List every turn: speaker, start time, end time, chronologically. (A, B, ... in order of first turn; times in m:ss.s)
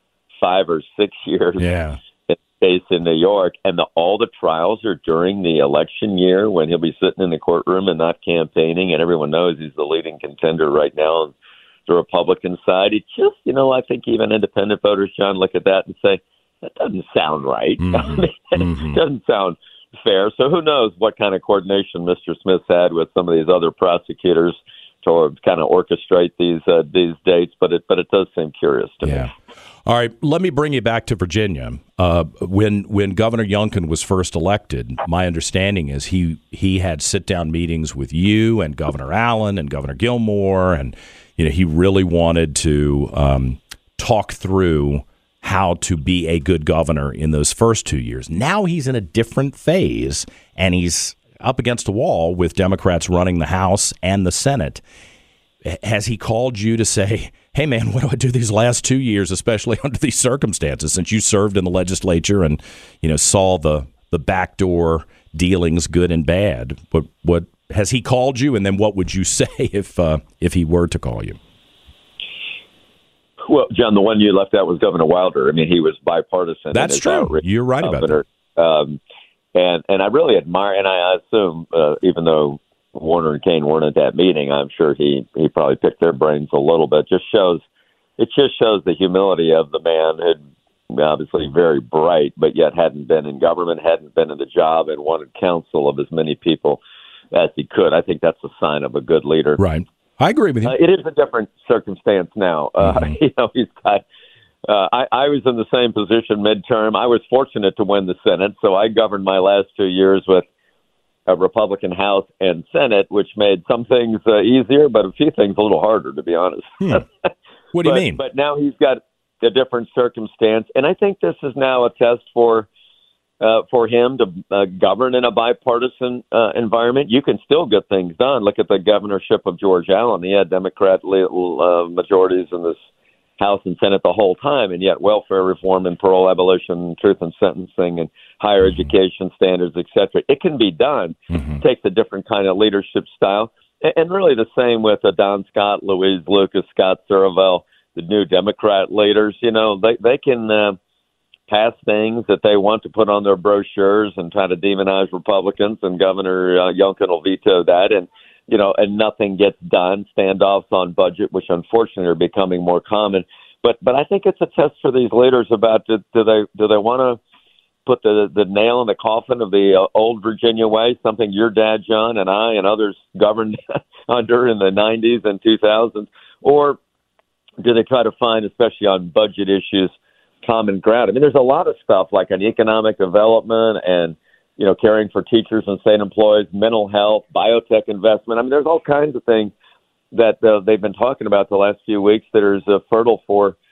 0:00.4-0:01.6 A
0:01.6-0:02.0 B
0:02.3-0:11.3 A
0:11.9-0:29.3 A
0:17.8-0:19.0 B
0:29.0-0:29.3 B
0:29.8-0:54.8 B
0:55.7-1:11.4 B
1:13.4-1:19.0 A
1:16.7-1:18.2 B
1:19.5-1:27.6 A
1:28.2-1:39.6 A
1:39.6-1:40.7 B
1:40.6-1:44.0 A
1:42.8-1:43.1 B
1:44.6-1:50.5 A
1:51.3-1:57.3 A
1:57.7-1:58.2 B
1:57.8-2:02.7 A
2:03.4-2:12.8 A
2:13.4-2:30.8 A
2:21.3-2:21.6 B
2:31.5-2:47.2 A
2:47.8-2:56.8 A
2:57.6-2:59.9 A
3:00.4-3:09.5 A
3:10.1-3:13.6 A